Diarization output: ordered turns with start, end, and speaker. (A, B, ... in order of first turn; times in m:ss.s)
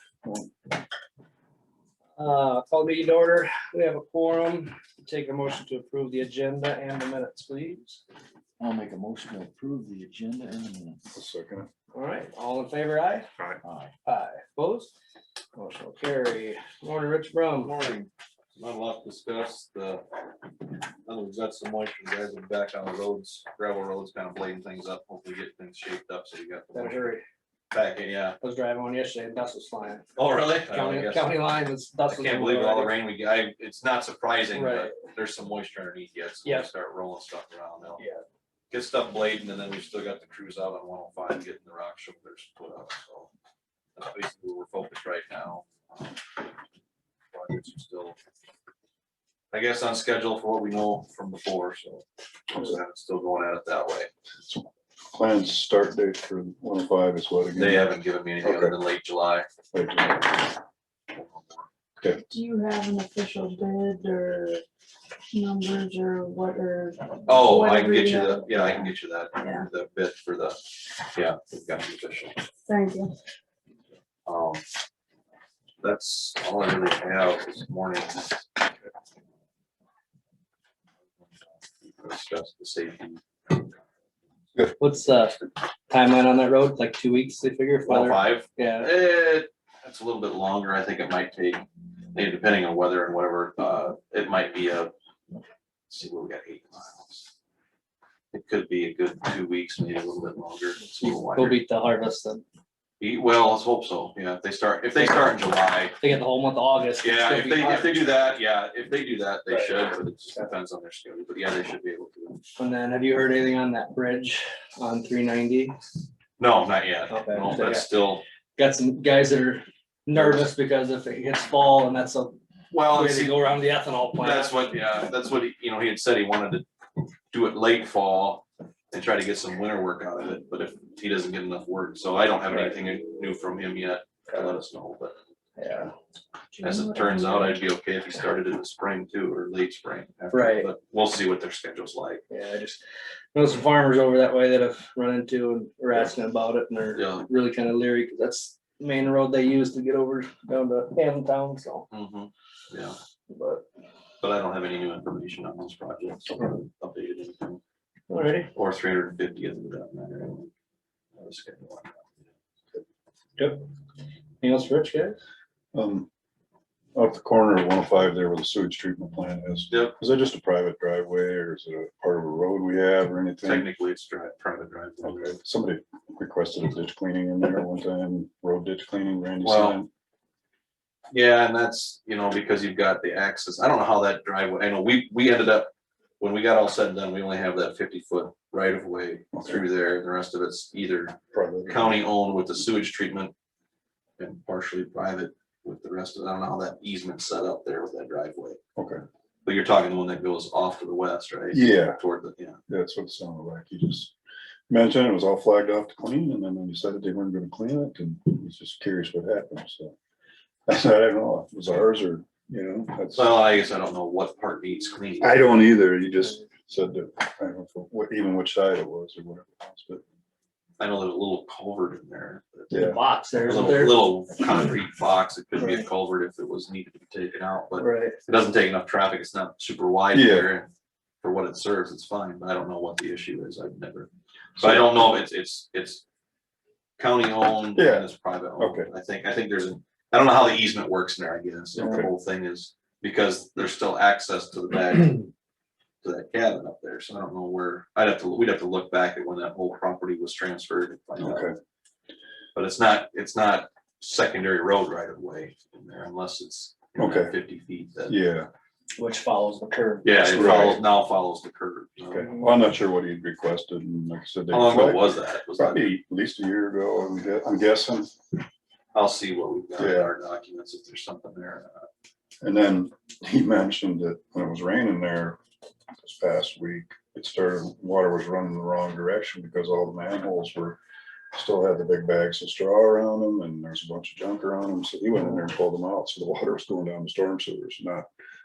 0:02.2-0:08.0 A
0:08.6-0:11.0 B
0:11.1-0:11.7 C
0:11.9-0:13.3 A
0:13.6-0:13.9 B
0:14.0-0:14.9 A
0:15.6-0:17.7 A
0:17.6-0:20.0 D
0:21.0-0:27.1 D
0:26.7-0:27.2 A
0:27.7-0:28.4 D
0:28.4-0:30.0 A
0:30.2-0:31.3 D
0:30.6-0:33.0 A
0:32.1-0:38.0 D
0:34.5-0:35.0 A
0:38.0-0:38.2 A
0:38.7-0:43.3 D
0:44.0-0:46.4 D
0:47.3-0:48.2 D
0:49.5-0:54.1 D
0:54.5-0:57.9 C
0:57.6-0:59.5 D
0:58.4-0:58.7 C
0:59.7-1:00.4 C
1:01.1-1:01.7 D
1:02.3-1:04.6 E
1:05.3-1:09.6 E
1:07.2-1:12.4 D
1:12.6-1:13.1 E
1:14.2-1:14.6 D
1:15.8-1:18.6 D
1:21.8-1:23.8 D
1:24.8-1:28.9 A
1:27.8-1:34.9 D
1:35.9-1:37.3 D
1:38.3-1:41.6 D
1:41.0-1:42.4 A
1:43.0-1:46.0 D
1:45.0-1:45.3 A
1:46.0-1:48.0 A
1:47.0-1:52.4 D
1:49.5-1:49.9 A
1:52.6-1:55.8 A
1:56.4-1:58.2 D
1:57.1-1:57.8 A
1:58.6-2:02.4 A
2:00.2-2:00.4 D
2:02.7-2:03.4 D
2:02.9-2:04.6 A
2:04.2-2:06.6 D
2:07.3-2:15.1 D
2:15.6-2:15.9 A
2:16.5-2:17.6 E
2:16.6-2:22.2 D
2:20.3-2:20.7 A
2:22.3-2:22.8 A
2:23.3-2:31.9 A
2:26.9-2:27.3 D
2:31.9-2:33.0 D
2:33.3-2:33.6 A
2:34.2-2:37.6 D
2:38.1-2:38.5 A
2:38.5-2:40.5 D
2:41.2-2:42.0 D
2:43.4-2:43.6 A
2:44.4-2:45.2 A
2:45.7-2:46.1 C
2:46.9-2:53.7 C
2:49.7-2:50.0 D
2:53.4-2:55.4 D
2:55.0-2:59.9 C
2:59.4-2:59.8 D
3:01.1-3:13.3 D
3:09.4-3:09.6 C
3:11.3-3:12.0 C
3:14.2-3:18.6 D
3:19.4-3:22.6 D
3:21.5-3:22.0 C
3:22.7-3:24.1 C
3:24.7-3:29.9 C
3:30.7-3:33.3 C
3:33.1-3:35.5 D
3:35.2-3:40.0 C
3:40.8-3:42.8 D
3:42.7-3:43.0 C
3:42.7-3:44.1 A
3:43.4-3:50.7 D
3:47.8-3:48.2 A
3:50.1-3:50.5 C
3:51.2-3:56.0 D
3:54.6-3:54.9 C
3:57.0-4:05.3 D
3:57.8-3:58.9 C
4:01.8-4:02.1 C
4:06.0-4:11.5 D
4:11.2-4:11.6 C
4:12.5-4:18.1 D
4:17.0-4:17.3 C
4:18.1-4:18.5 C
4:19.0-4:20.4 A
4:20.0-4:22.3 D
4:20.3-4:20.8 C
4:22.1-4:28.4 C
4:24.5-4:25.9 D
4:28.9-4:31.9 D
4:29.8-4:30.1 C
4:32.4-4:35.4 C
4:36.0-4:40.8 C
4:41.3-4:48.1 C